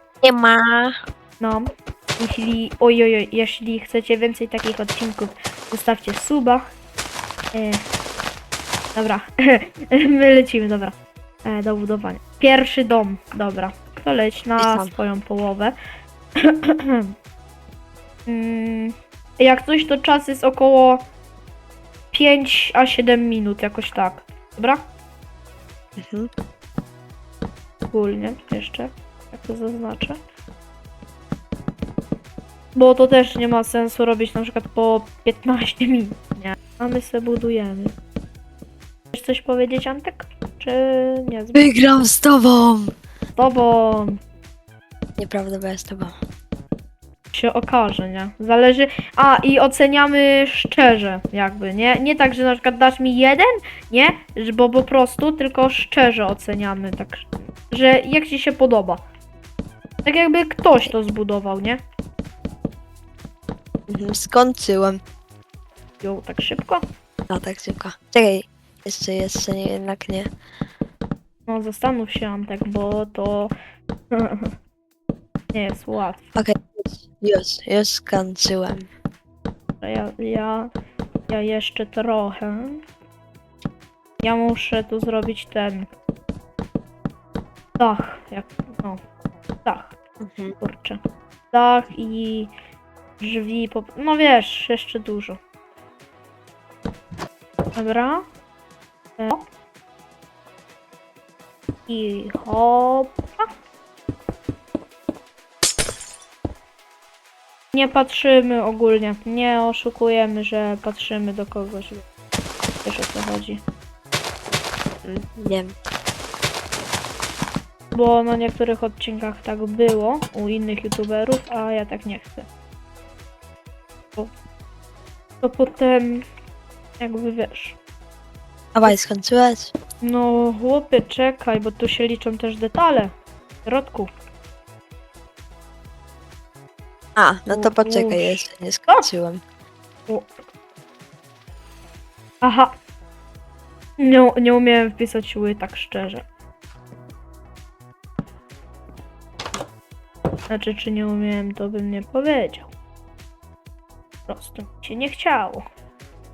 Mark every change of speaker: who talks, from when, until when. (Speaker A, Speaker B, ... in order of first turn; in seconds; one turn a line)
Speaker A: 0.2-0.9
Speaker B: 1.4-6.7
Speaker B: 7.5-7.8
Speaker B: 8.9-15.7
Speaker A: 14.6-14.9
Speaker B: 16.4-17.1
Speaker B: 18.3-21.0
Speaker B: 22.1-24.8
Speaker A: 26.0-26.3
Speaker B: 27.9-30.2
Speaker B: 32.8-37.9
Speaker B: 39.1-41.7
Speaker A: 41.5-42.9
Speaker B: 43.4-44.2
Speaker A: 45.2-46.1
Speaker B: 47.3-59.0
Speaker B: 60.0-61.8
Speaker A: 63.9-65.0
Speaker B: 66.0-66.8
Speaker A: 67.3-70.3
Speaker B: 71.5-73.5
Speaker B: 74.1-74.5
Speaker B: 75.5-76.2
Speaker A: 76.3-78.9
Speaker B: 79.8-80.7
Speaker B: 81.3-82.8
Speaker B: 84.2-85.9
Speaker B: 87.8-89.0
Speaker B: 89.6-90.0
Speaker A: 90.2-90.5
Speaker B: 90.6-91.0
Speaker B: 91.5-92.5
Speaker B: 93.2-95.4
Speaker B: 97.8-98.2
Speaker B: 99.2-99.4
Speaker B: 101.9-103.5
Speaker B: 107.7-112.0
Speaker B: 112.8-113.6
Speaker A: 115.0-115.7
Speaker B: 117.9-122.5
Speaker B: 125.4-126.2
Speaker B: 127.0-127.8
Speaker A: 128.7-129.7
Speaker B: 130.0-133.1
Speaker B: 133.6-134.1
Speaker A: 137.2-139.4
Speaker B: 137.5-139.1
Speaker B: 142.4-142.7
Speaker B: 144.0-146.2
Speaker B: 150.5-152.7
Speaker B: 154.3-155.6